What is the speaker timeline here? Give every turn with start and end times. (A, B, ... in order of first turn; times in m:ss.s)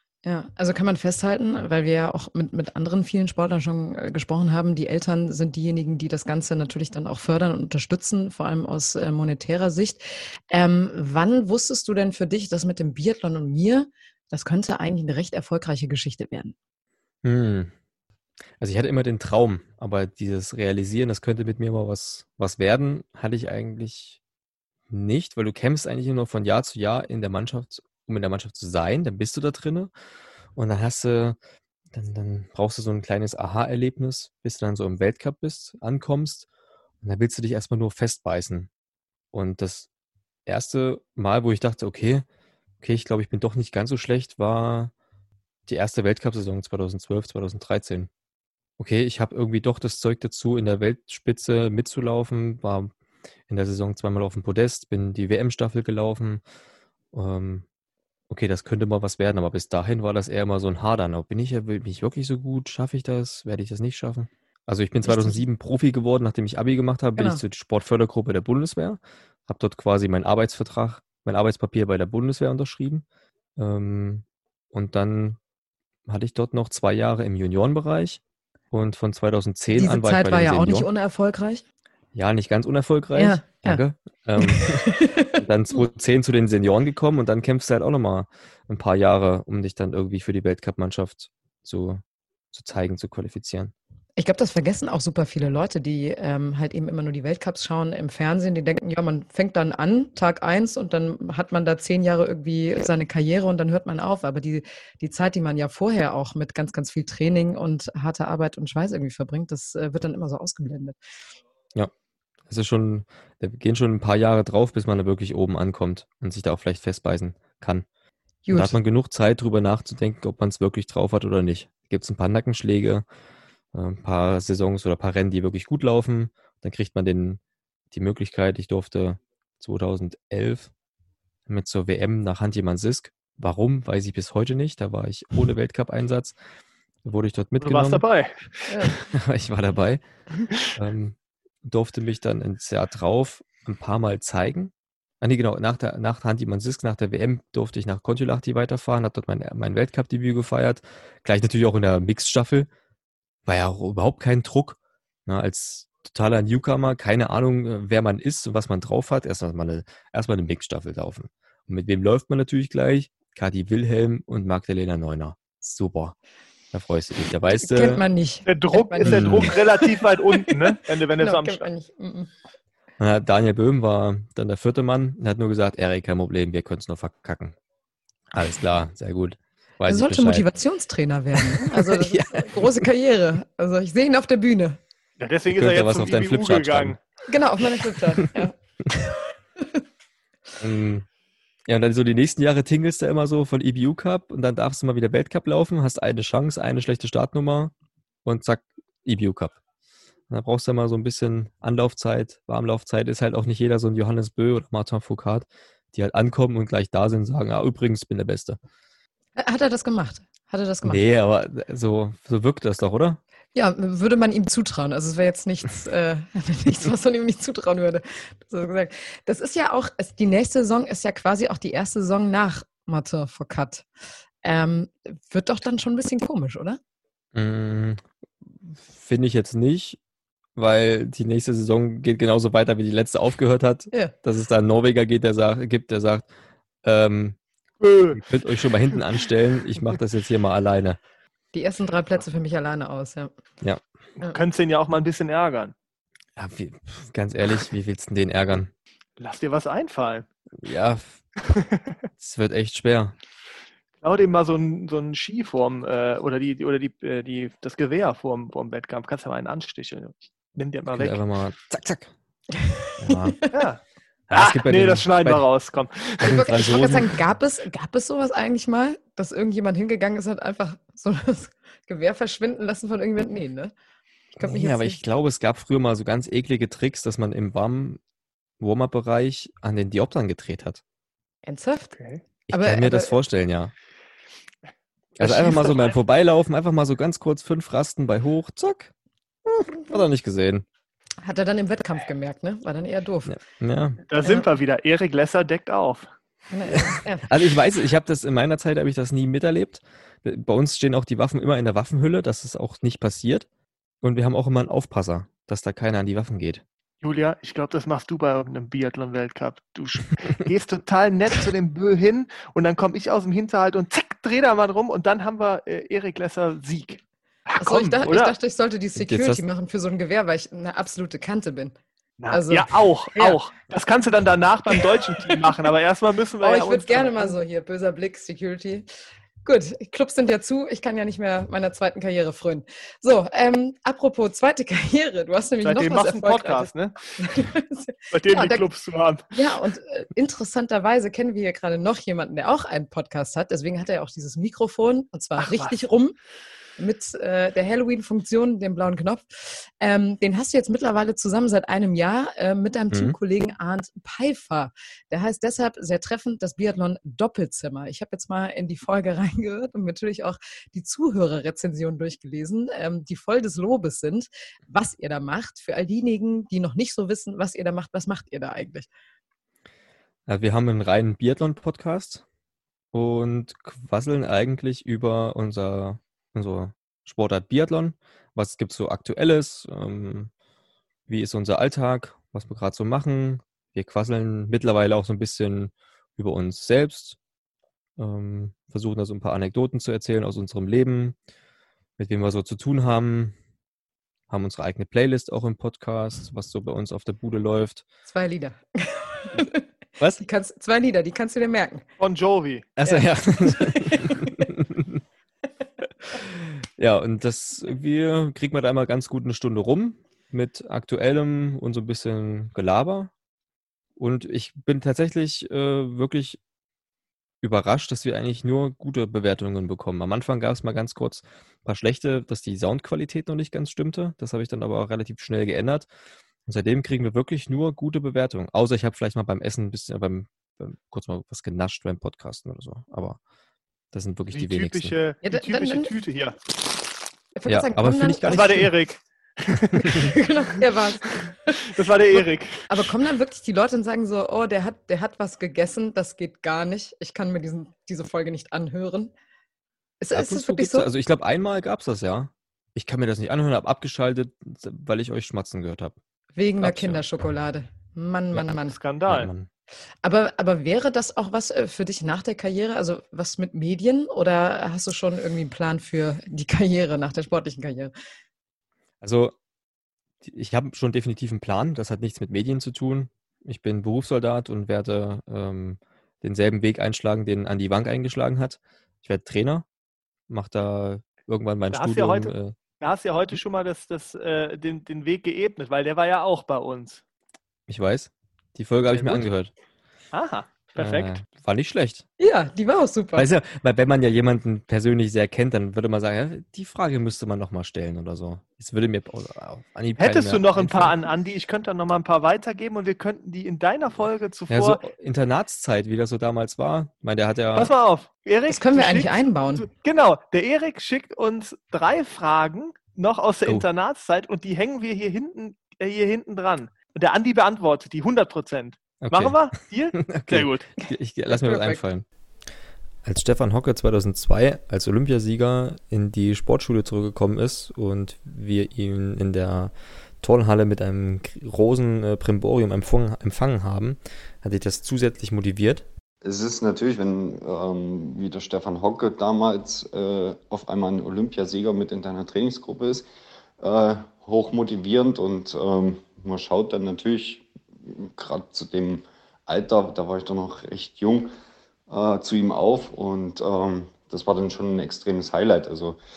0:00.2-0:16.6 A
0:17.2-0:17.7 B
0:18.6-0:24.2 B
0:24.9-0:29.9 B
0:30.6-0:31.4 B
0:31.9-0:36.5 B
0:37.0-0:38.7 B
0:39.3-0:39.9 B
0:40.5-0:42.3 B
0:42.8-0:44.9 B
0:45.7-0:48.1 B
0:48.8-0:52.9 B
0:53.5-0:56.4 B
0:57.1-0:57.6 B
0:58.3-1:13.0 B
1:05.0-1:05.4 A
1:13.6-1:15.4 B
1:16.1-1:18.2 B
1:18.7-1:20.9 B
1:19.7-1:21.6 A
1:22.2-1:33.7 B
1:23.2-1:23.8 A
1:24.4-1:25.4 A
1:34.2-1:51.0 A
1:52.5-1:57.9 B
1:58.5-1:58.8 A
1:58.5-2:03.0 B
2:03.7-2:07.4 B
2:07.9-2:10.7 B
2:11.5-2:16.4 B
2:17.0-2:18.0 B
2:17.6-2:19.1 C
2:18.7-2:18.9 A
2:19.1-2:20.0 B
2:20.6-2:32.7 B
2:33.5-2:46.2 B
2:46.7-2:48.0 B
2:47.6-2:49.9 A
2:48.5-2:51.6 C
2:49.0-2:49.5 B
2:51.2-2:52.3 A
2:53.0-2:57.6 B
2:58.3-3:00.5 B
2:59.9-3:04.8 A
3:01.4-3:02.9 B
3:05.2-3:07.0 C
3:05.5-3:07.0 B
3:07.3-3:09.8 A
3:10.6-3:11.1 B
3:11.7-3:17.7 B
3:18.2-3:19.6 B
3:20.3-3:28.6 B
3:29.4-3:31.0 A
3:30.8-3:33.2 B
3:33.6-3:43.9 A
3:44.4-3:46.8 A
3:47.4-3:50.0 B
3:50.6-3:56.3 B
3:56.8-3:57.4 B
3:57.8-3:58.2 C
3:58.1-4:01.0 B
4:01.5-4:03.3 A
4:04.2-4:05.7 C
4:06.4-4:08.7 B
4:09.2-4:10.3 C
4:10.6-4:11.2 B
4:11.4-4:11.9 C
4:12.2-4:13.2 B
4:14.0-4:21.2 C
4:20.9-4:22.1 B
4:22.6-4:23.6 A
4:23.0-4:23.4 B
4:23.5-4:26.7 C
4:24.3-4:25.4 B
4:26.2-4:27.2 B
4:26.2-4:33.7 A
4:34.4-4:38.0 B
4:34.4-4:35.0 A
4:38.6-4:40.8 B
4:41.4-4:42.0 A
4:42.5-4:43.7 B
4:42.5-4:43.2 A
4:45.2-4:48.9 B
4:45.2-4:45.9 C
4:49.7-4:50.6 B
4:51.2-4:53.4 A
4:53.3-4:54.0 B
4:54.1-4:56.0 C
4:56.5-4:57.2 A
4:56.7-5:03.5 B
5:04.0-5:06.6 B
5:07.0-5:18.3 C
5:17.6-5:21.8 A
5:19.0-5:19.4 B
5:22.2-5:27.4 C
5:22.3-5:23.4 A
5:24.7-5:25.4 A
5:26.4-5:28.9 A
5:29.4-5:38.7 A
5:35.6-5:37.2 C
5:38.1-5:39.2 C
5:39.3-5:46.2 A
5:45.4-5:45.8 C
5:46.8-6:08.9 A
5:52.9-5:53.2 B
6:10.3-6:12.2 B
6:12.9-6:20.3 B
6:21.1-6:27.2 B
6:28.0-6:31.2 B
6:32.0-6:33.4 B
6:34.3-6:37.8 B
6:38.1-6:39.7 A
6:40.2-6:41.8 A
6:42.0-6:42.7 C
6:42.8-6:45.0 B
6:42.9-6:44.5 A
6:46.2-6:53.1 B
6:54.0-6:56.4 B
6:57.4-7:05.9 B
7:06.5-7:13.2 B
7:13.9-7:14.9 B
7:14.3-7:16.4 C
7:15.2-7:16.0 A
7:17.4-7:18.7 A
7:17.5-7:18.7 B
7:18.3-7:20.2 C
7:19.8-7:29.1 A
7:21.6-7:22.9 C
7:30.0-7:30.9 A
7:30.1-7:36.0 B
7:36.4-7:38.8 A
7:36.6-7:37.0 B
7:38.7-7:39.3 C
7:39.1-7:39.5 B
7:40.0-7:47.9 A
7:49.0-7:49.4 B
7:50.2-7:59.7 B
8:00.3-8:02.6 B
8:01.7-8:07.0 C
8:07.7-8:09.5 B
8:08.9-8:09.3 C
8:10.1-8:11.2 C
8:10.8-8:12.1 B
8:12.2-8:13.3 A
8:13.2-8:20.9 B
8:20.0-8:24.8 C
8:24.5-8:27.7 B
8:27.6-8:40.7 C
8:28.5-8:29.7 A
8:39.0-8:39.4 B
8:40.0-8:42.0 B
8:41.3-8:41.8 A
8:43.0-8:55.9 B
8:56.2-9:03.1 D
9:03.6-9:11.3 D
9:11.9-9:16.0 D